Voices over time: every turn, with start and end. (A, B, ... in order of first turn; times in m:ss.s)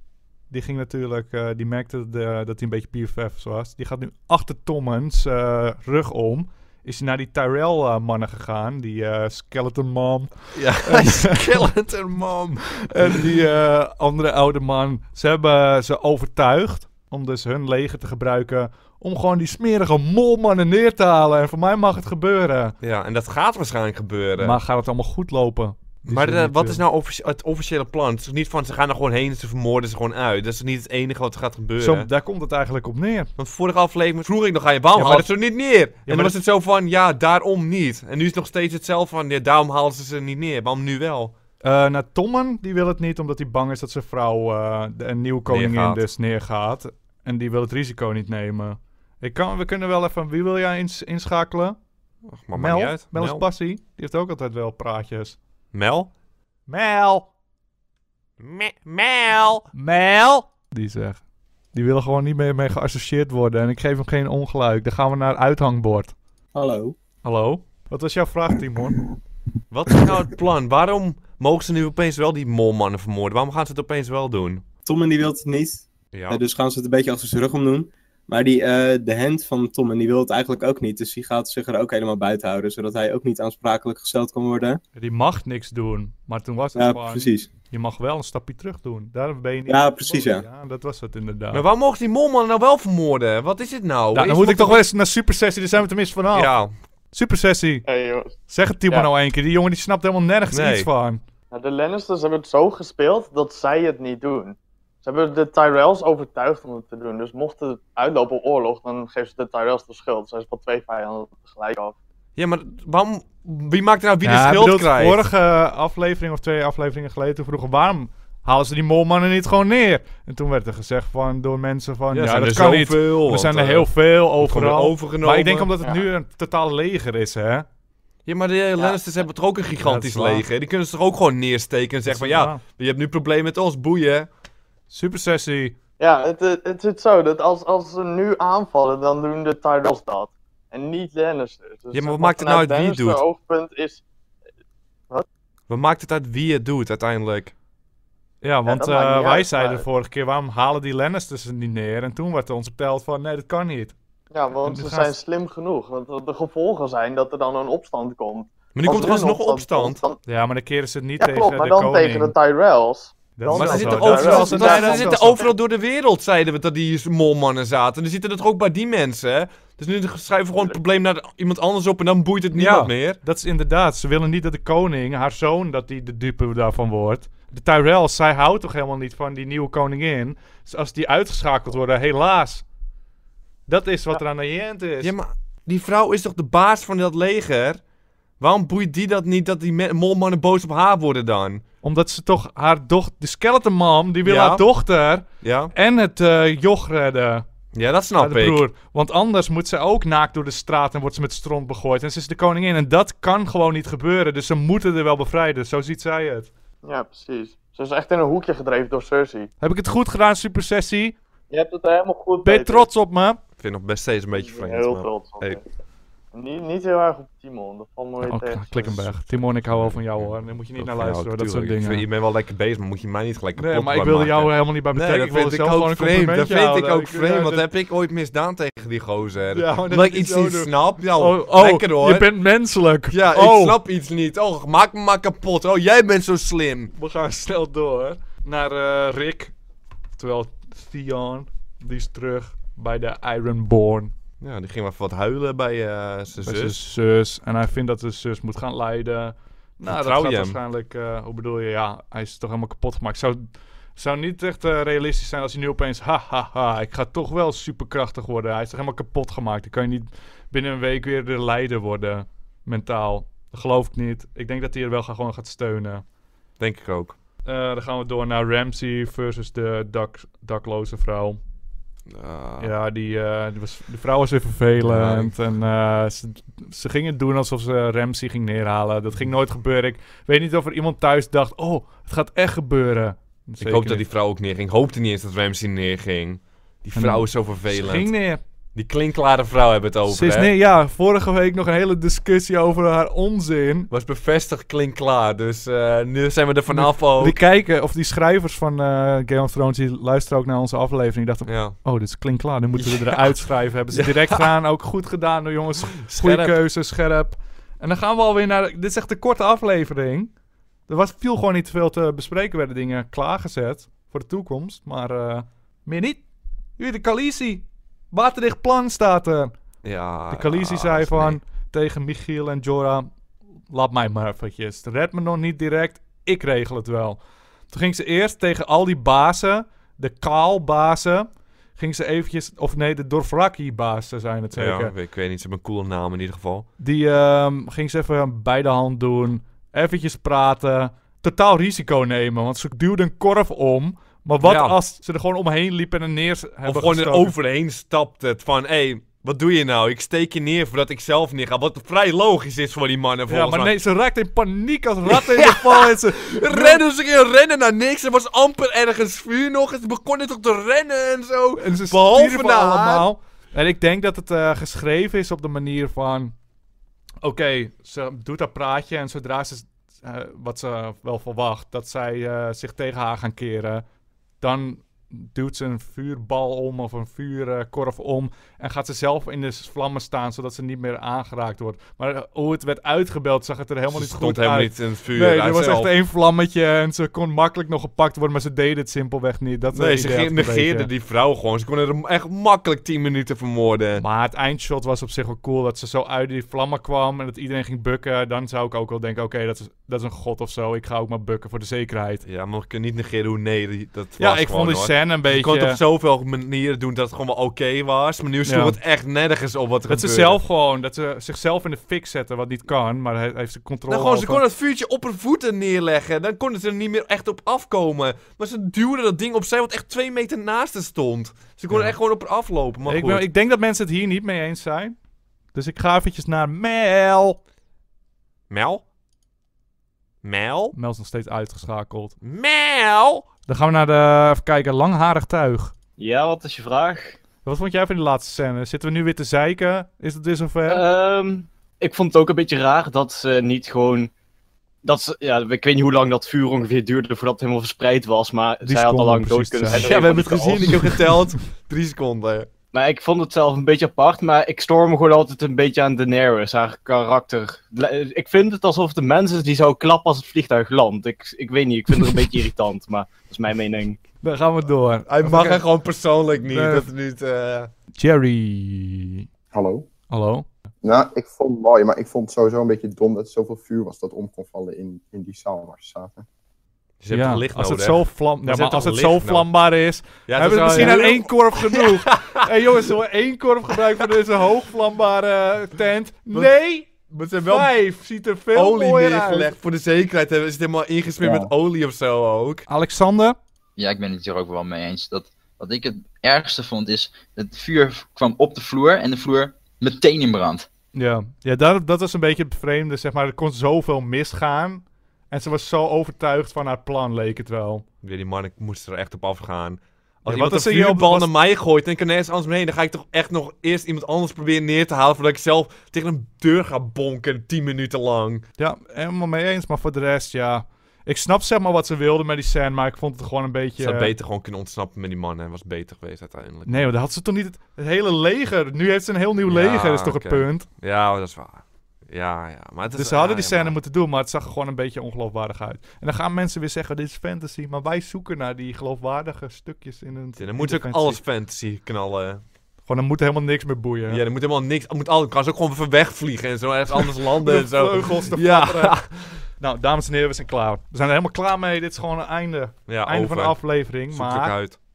0:00.5-0:11.6 A
0:10.5-0:13.2 B
0:12.7-0:22.8 A
0:22.8-0:24.6 B
0:24.4-0:26.8 A
0:26.0-0:32.1 B
0:31.8-0:33.3 A
0:33.4-0:41.3 B
0:34.9-0:35.3 A
0:36.0-0:36.4 A
0:41.6-0:51.8 A
0:45.5-0:46.0 B
0:52.2-0:53.4 B
0:52.5-0:55.4 A
0:55.7-0:56.1 B
0:56.7-0:57.3 A
0:58.4-0:59.7 B
0:59.7-1:01.2 A
1:01.7-1:06.1 A
1:06.5-1:06.9 C
1:07.2-1:09.0 A
1:09.7-1:14.6 B
1:14.8-1:24.8 C
1:16.1-1:16.4 B
1:24.9-1:31.6 A
1:26.7-1:27.5 C
1:29.7-1:30.4 C
1:31.5-1:34.9 B
1:34.1-1:36.5 A
1:36.3-1:36.7 B
1:37.1-1:37.8 A
1:37.8-1:38.4 D
1:38.5-1:41.2 A
1:40.5-1:40.9 B
1:41.5-1:52.0 D
1:52.4-1:55.2 B
1:54.2-2:07.6 A
2:02.1-2:05.7 B
2:08.2-2:14.3 B
2:09.8-2:10.4 A
2:12.0-2:12.6 A
2:14.9-2:15.7 A
2:16.0-2:24.0 D
2:21.9-2:23.2 B
2:25.7-2:27.5 B
2:28.4-2:33.9 A
2:28.7-2:29.8 D
2:34.3-2:40.2 D
2:34.6-2:35.1 A
2:38.7-2:40.1 B
2:40.2-2:42.3 A
2:41.2-2:45.5 D
2:43.4-2:45.4 A
2:43.5-2:53.2 B
2:52.5-3:02.6 A
3:03.7-3:05.1 A
3:05.0-3:07.8 B
3:08.4-3:11.6 B
3:11.8-3:17.4 A
3:14.2-3:14.6 B
3:15.4-3:15.7 B
3:17.7-3:18.6 B
3:18.2-3:26.5 A
3:26.8-3:29.5 D
3:29.6-3:31.1 A
3:31.5-3:32.9 D
3:32.4-3:33.4 A
3:33.6-3:35.6 B
3:34.3-3:35.6 D
3:36.3-3:39.1 D
3:38.2-3:42.1 A
3:39.7-3:52.3 B
3:43.5-3:47.7 A
3:49.5-3:53.8 A
3:53.1-3:56.9 B
3:57.0-3:59.5 A
4:00.2-4:04.1 A
4:04.4-4:06.8 B
4:06.4-4:26.0 A
4:09.8-4:10.6 B
4:26.6-4:27.2 B
4:27.4-4:31.4 A
4:32.1-4:32.8 B
4:32.6-4:44.0 A
4:34.8-4:35.3 B
4:43.6-4:48.1 B
4:46.9-4:48.4 A
4:48.7-4:50.5 B
4:50.1-4:53.9 A
4:53.9-4:57.4 B
4:56.7-5:10.3 A
5:01.4-5:01.8 B
5:02.8-5:04.5 B
5:05.9-5:06.6 B
5:10.9-5:16.2 A
5:16.8-5:19.5 A
5:19.8-5:21.4 B
5:20.3-5:23.1 A
5:23.7-5:27.2 A
5:27.7-5:34.9 A
5:34.5-5:36.7 B
5:36.8-5:47.3 A
5:44.4-5:44.8 B
5:46.6-5:53.7 B
5:53.3-5:56.8 A
5:55.1-6:03.1 B
6:01.6-6:06.3 A
6:07.2-6:13.8 A
6:14.4-6:30.9 A
6:23.9-6:25.9 B
6:29.7-6:34.0 B
6:33.9-6:42.2 A
6:42.2-6:50.4 B
6:44.2-6:45.8 A
6:48.4-6:48.8 A
6:49.9-6:54.4 A
6:53.9-7:03.2 B
7:01.7-7:02.0 A
7:02.8-7:05.0 A
7:05.5-7:07.4 A
7:08.5-7:08.8 B
7:10.2-7:10.7 B
7:10.7-7:12.1 A
7:12.2-7:13.3 B
7:13.5-7:15.7 A
7:16.0-7:17.1 E
7:17.4-7:20.8 A
7:20.7-7:24.1 E
7:24.8-7:31.0 E
7:28.6-7:31.0 A
7:29.8-7:32.5 B
7:32.7-7:44.0 E
7:44.2-7:45.6 A
7:45.1-7:47.7 B
7:46.4-7:46.9 A
7:48.0-7:49.2 A
7:49.5-7:49.8 F
7:50.1-7:50.5 A
7:50.8-7:56.2 F
7:57.0-7:59.5 B
7:57.1-8:06.9 A
8:00.3-8:02.5 B
8:07.1-8:07.8 B
8:07.4-8:09.5 A
8:08.5-8:12.7 B
8:11.2-8:11.5 G
8:12.7-8:13.4 A
8:13.8-8:20.7 G
8:20.9-8:27.8 A
8:28.0-8:38.4 B
8:30.2-8:31.3 A
8:38.6-8:44.1 A
8:43.8-8:46.9 B
8:46.6-8:50.7 A
8:49.4-8:53.8 B
8:52.9-9:01.2 A
9:00.4-9:02.4 B
9:02.8-9:04.2 A
9:04.1-9:09.4 B
9:06.9-9:09.0 A
9:09.6-9:14.6 A
9:12.9-9:14.8 B